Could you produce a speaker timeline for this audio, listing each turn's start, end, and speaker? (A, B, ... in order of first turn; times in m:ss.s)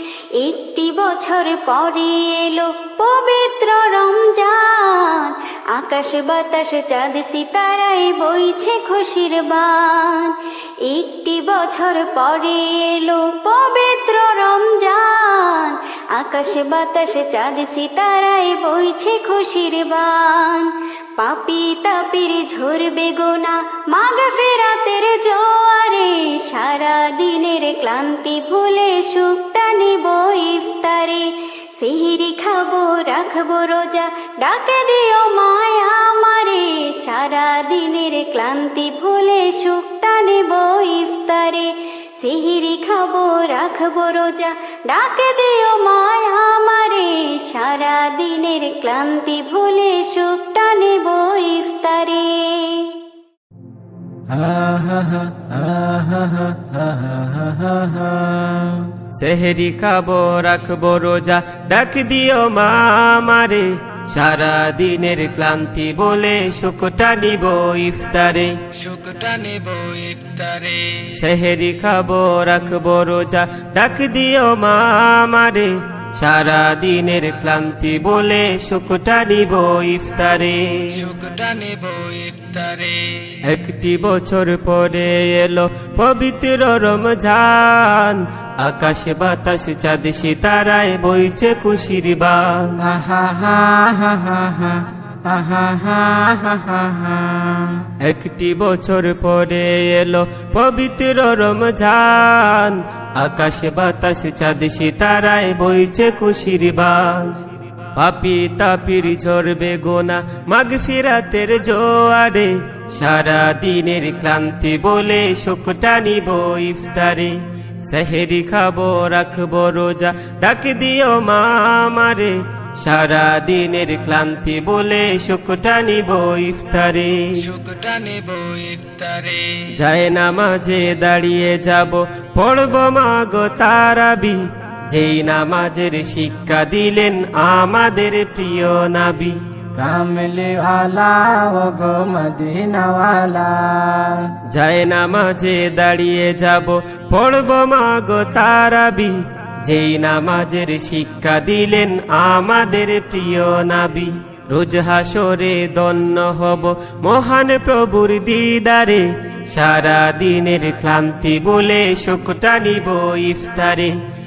0:00.4-0:53.0 A
0:54.3-0:58.9 B
0:59.1-1:08.5 C
1:08.8-1:11.1 D
1:11.2-1:20.8 C
1:20.9-1:23.3 D
1:23.4-1:32.7 C
1:32.8-1:37.8 B
1:38.0-1:47.3 C
1:47.9-2:07.3 C
2:07.4-2:09.7 D
2:09.8-2:19.4 C
2:19.7-2:24.3 B
2:24.5-2:44.0 C